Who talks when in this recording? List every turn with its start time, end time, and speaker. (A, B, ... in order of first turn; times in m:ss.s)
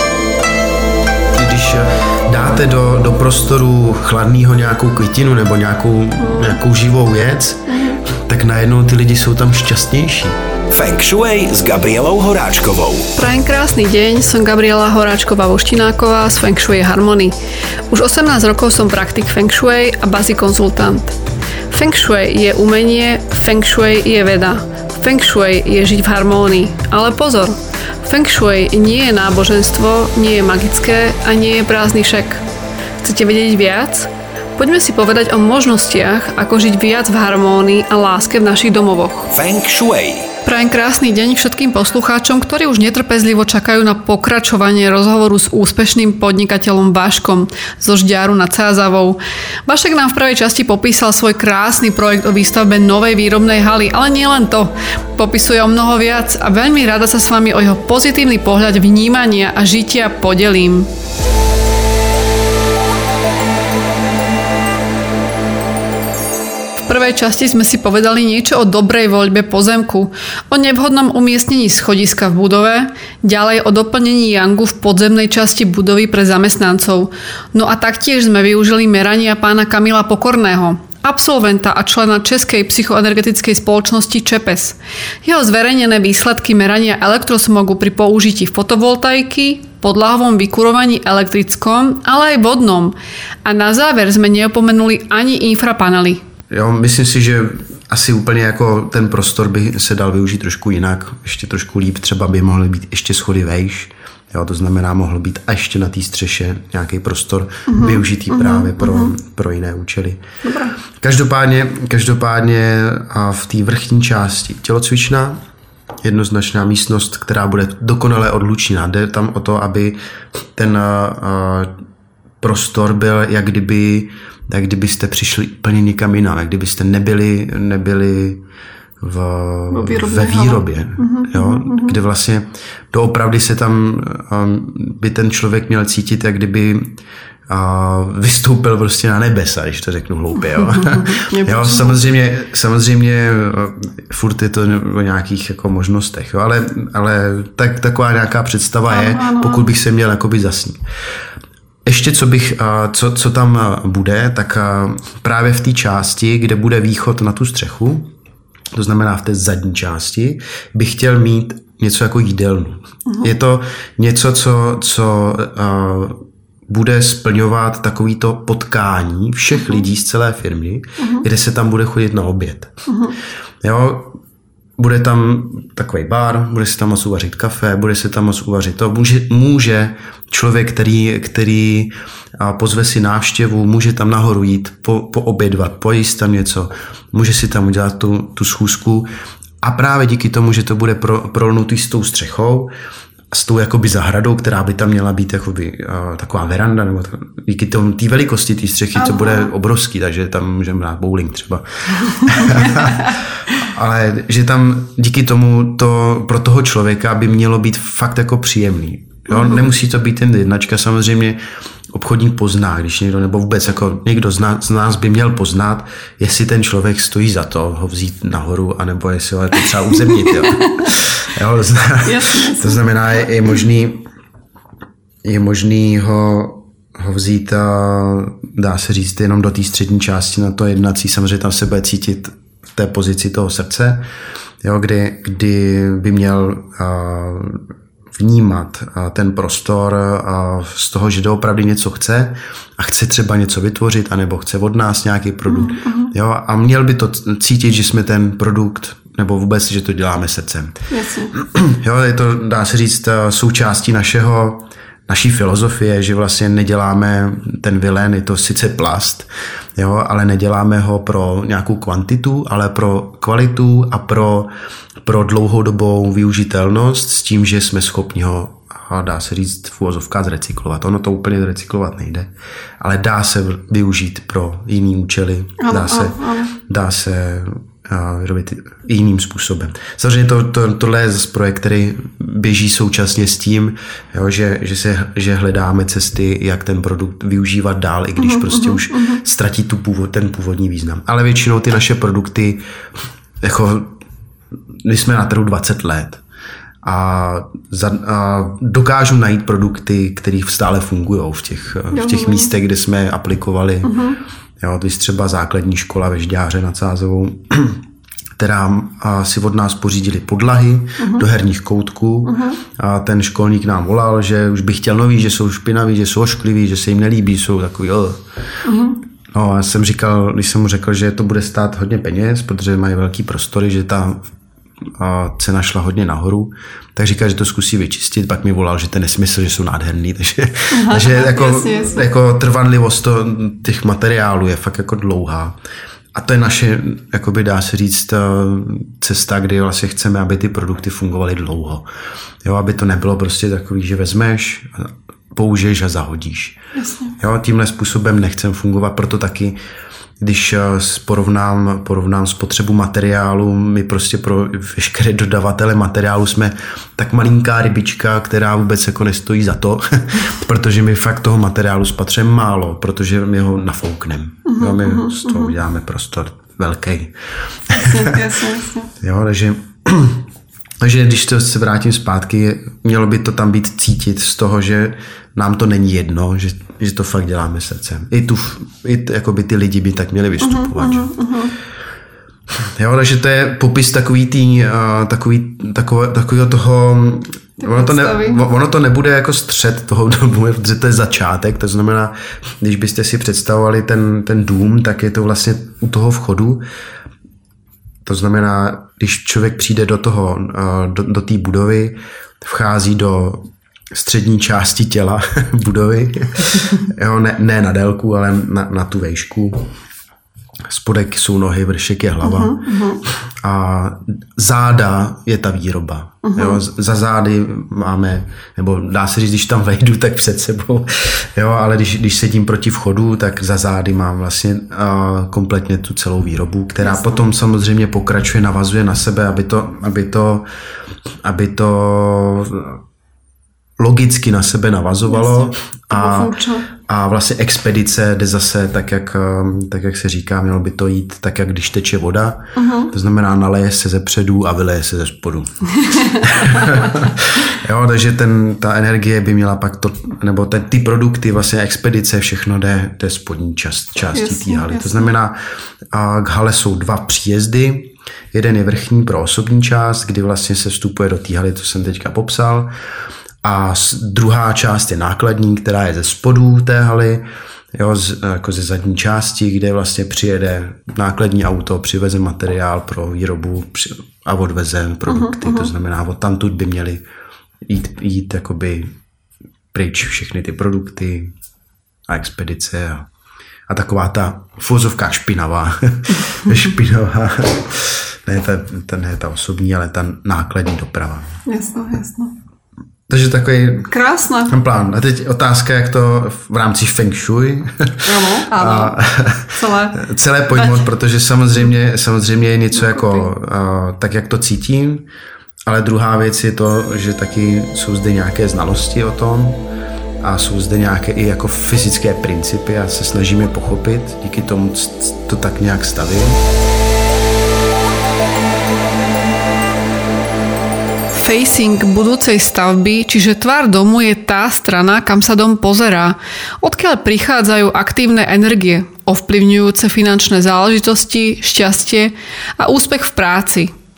0:01.4-0:10.4 A
0:06.2-0:06.6 B
0:07.7-0:08.0 B
0:10.7-0:13.1 C
0:13.2-0:17.4 B
0:17.9-0:21.2 B
0:21.7-0:32.4 B
0:33.0-0:39.3 B
0:39.3-0:40.3 C
0:40.4-1:00.9 B
1:06.9-1:36.2 B
1:36.5-1:50.2 A
1:47.7-1:49.1 B
1:50.4-1:50.8 B
1:51.0-1:55.4 A
1:56.0-2:01.7 A
2:02.4-2:08.4 A
2:09.0-2:30.8 A
2:09.7-2:12.0 B
2:20.6-2:22.0 B
2:28.9-2:29.7 B
2:31.8-2:38.1 A
2:38.7-2:52.7 A
2:51.0-2:51.3 B
2:52.9-2:53.2 B
2:53.6-2:54.2 A
2:54.8-3:09.1 A
3:09.6-3:12.7 A
3:13.3-3:31.4 A
3:19.0-3:19.5 B
3:22.3-3:23.1 B
3:29.3-3:29.6 B
3:31.9-3:44.1 A
3:40.0-3:40.9 B
3:42.0-3:43.6 B
3:45.2-3:54.1 A
3:54.6-4:10.8 A
4:05.5-4:06.1 B
4:10.9-4:11.3 B
4:11.3-4:52.6 A
4:35.6-4:36.6 B
4:48.2-4:49.2 B
4:53.4-4:54.0 A
4:54.8-4:56.2 A
4:56.8-5:04.0 A
5:01.9-5:02.5 B
5:03.8-5:04.2 B
5:04.6-5:07.8 A
5:08.4-5:18.2 A
5:11.0-5:11.2 B
5:12.2-5:12.6 B
5:18.6-5:19.0 B
5:19.3-5:24.3 A
5:24.9-5:35.6 A
5:30.7-5:32.1 B
5:36.1-5:41.9 A
5:42.4-5:46.6 A
5:46.7-5:47.2 B
5:47.2-5:49.6 A
5:50.2-6:07.2 A
6:04.5-6:05.6 B
6:07.7-6:08.2 A
6:07.7-6:08.9 B
6:09.0-6:10.2 A
6:10.8-6:21.1 A
6:20.4-6:21.6 B
6:22.6-6:36.6 A
6:27.6-6:28.4 B
6:38.0-6:49.7 A
6:50.7-7:10.5 A
6:52.2-6:53.0 B
6:56.2-6:56.6 B
7:06.8-7:07.3 B
7:11.2-7:12.8 A
7:13.8-7:35.4 A
7:15.0-7:16.7 B
7:22.6-7:22.9 B
7:25.8-7:26.8 B
7:34.1-7:35.1 B
7:35.9-7:42.7 A
7:43.4-7:57.0 A
7:55.1-7:55.7 B
7:57.6-7:58.9 A
7:59.7-8:01.3 A
8:02.1-8:03.1 A
8:03.7-8:11.3 A
8:11.5-8:12.4 B
8:13.1-8:13.9 A
8:13.9-8:14.6 B
8:14.5-8:25.1 A
8:18.0-8:19.0 B
8:19.5-8:20.9 B
8:22.7-8:23.3 B
8:25.7-8:29.6 A
8:30.2-8:36.4 A
8:41.1-8:53.7 B